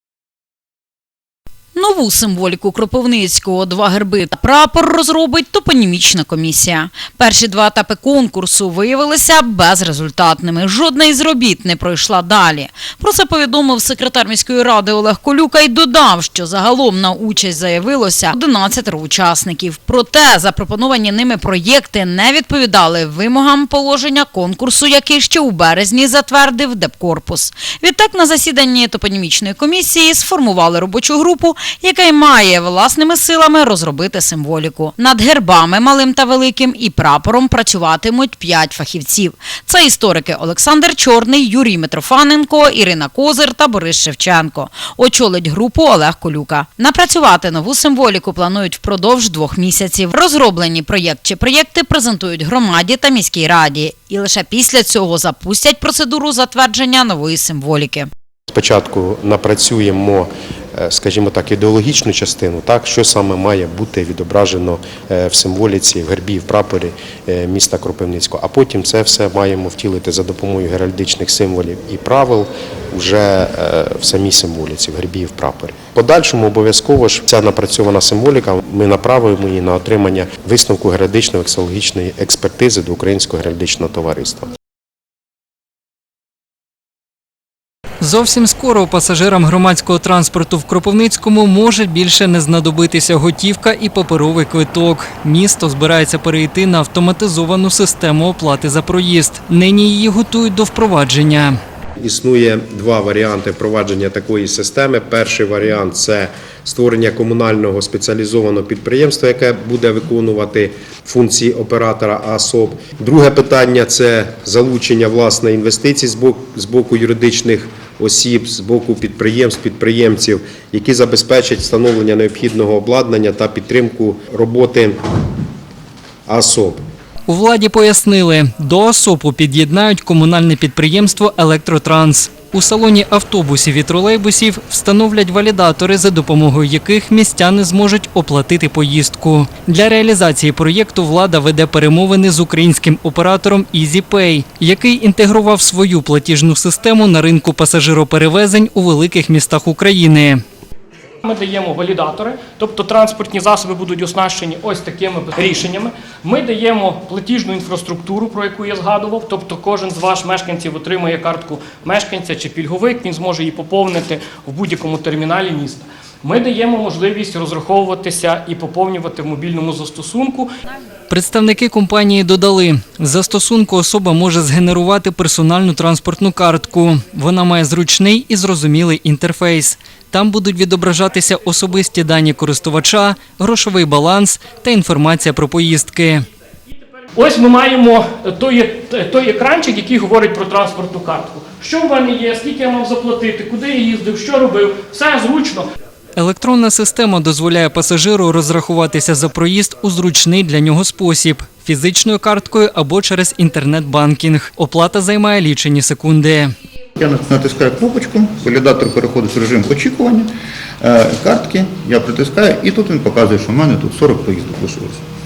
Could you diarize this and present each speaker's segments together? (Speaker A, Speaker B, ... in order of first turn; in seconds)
Speaker A: 1.7-58.1
Speaker B: 58.5-84.5, 102.0-125.0, 126.3-126.8
Speaker C: 88.0-101.6, 127.3-150.4, 171.1-186.2, 196.2-206.5
Speaker D: 151.2-170.5, 187.1-195.7
Speaker E: 207.0-215.0